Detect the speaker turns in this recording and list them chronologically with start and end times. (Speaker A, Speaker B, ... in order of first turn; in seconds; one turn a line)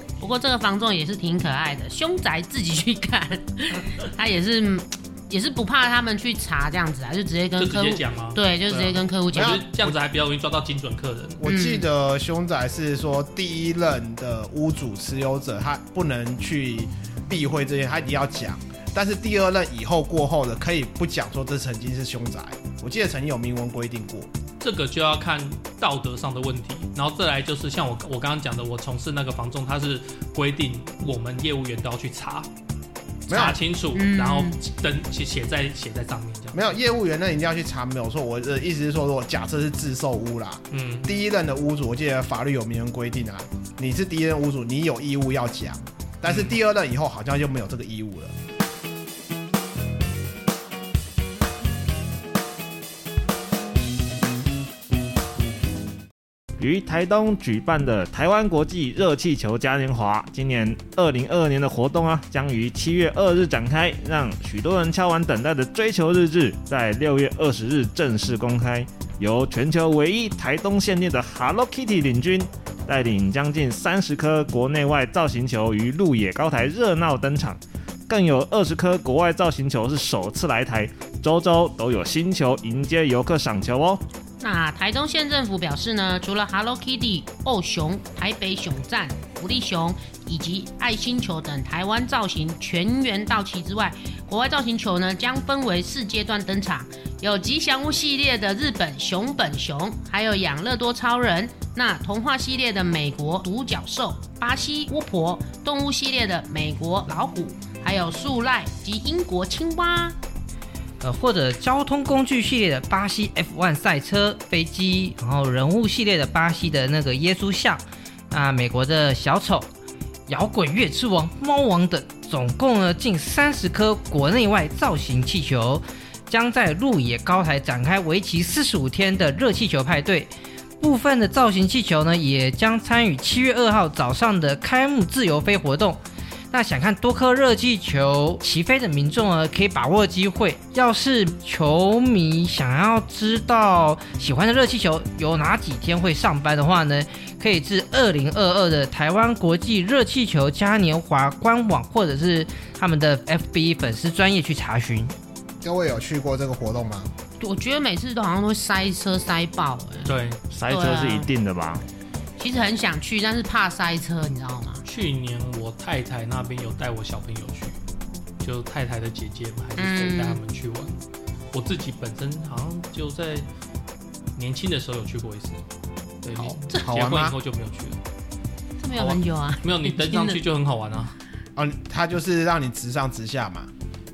Speaker A: 0.2-9.6
Speaker B: 7.6-11.4
Speaker C: 9.3-9.9
Speaker C: 11.4-24.3
Speaker A: 11.4-11.8
Speaker B: 24.6-32.5
Speaker A: 33.3-34.6
Speaker B: 33.3-36.7
Speaker C: 33.3-33.6
Speaker C: 36.5-48.3
Speaker B: 40.7-41.1
Speaker B: 46.2-46.5
Speaker D: 56.6-84.0
Speaker A: 84.4-110.2
Speaker E: 111.0-119.7
Speaker E: 120.3-136.0
Speaker E: 136.5-155.1
Speaker C: 155.6-157.1
Speaker A: 157.4-160.2
Speaker B: 160.1-160.4
Speaker D: 160.5-161.8
Speaker A: 160.7-161.3
Speaker A: 162.4-164.8
Speaker B: 164.8-167.8
Speaker B: 168.4-170.9
Speaker A: 169.8-170.4
Speaker B: 171.5-173.4
Speaker B: 174.3-175.6
Speaker B: 176.2-178.0
Speaker A: 176.4-176.9
Speaker C: 176.8-177.3
Speaker A: 178.8-180.4
Speaker B: 178.9-181.1
Speaker C: 181.6-183.7